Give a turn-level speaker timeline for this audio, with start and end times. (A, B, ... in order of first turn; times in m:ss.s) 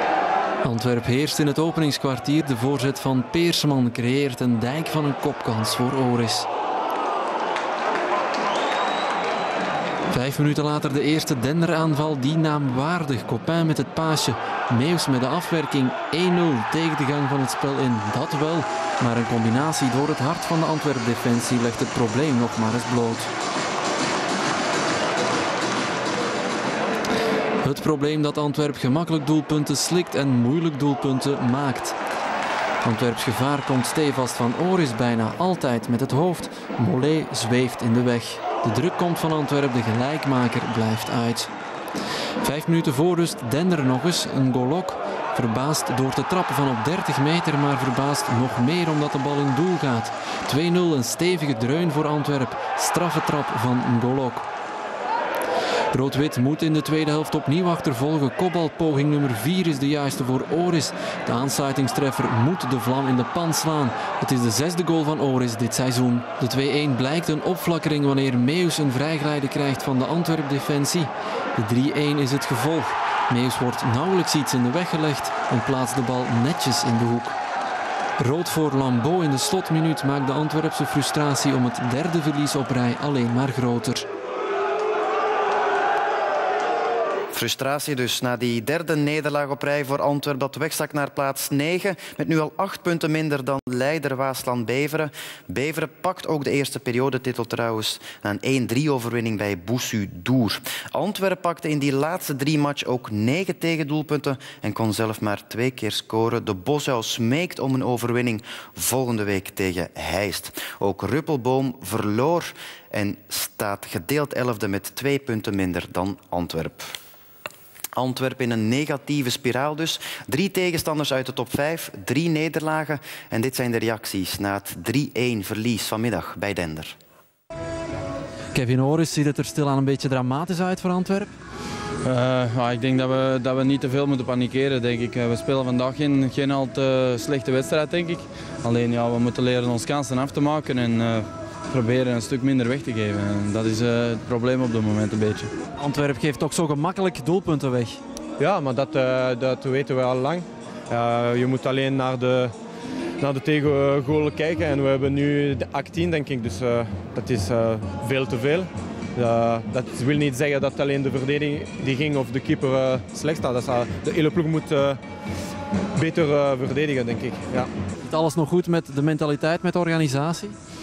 0:00.6-0:06.5 A
0:10.1-0:23.3 A
0:27.6-0:32.0 A
0:32.8-0:41.5 A
0:42.4-0:54.5 A
0:55.9-1:17.4 A
1:18.2-1:24.1 A
1:27.3-1:56.9 B
1:58.0-2:06.9 B
2:08.5-2:11.3 A
2:12.0-2:25.5 C
2:25.8-2:28.0 A
2:28.4-2:32.5 D
2:33.2-2:45.0 D
2:45.9-2:47.7 D
2:48.0-2:50.6 A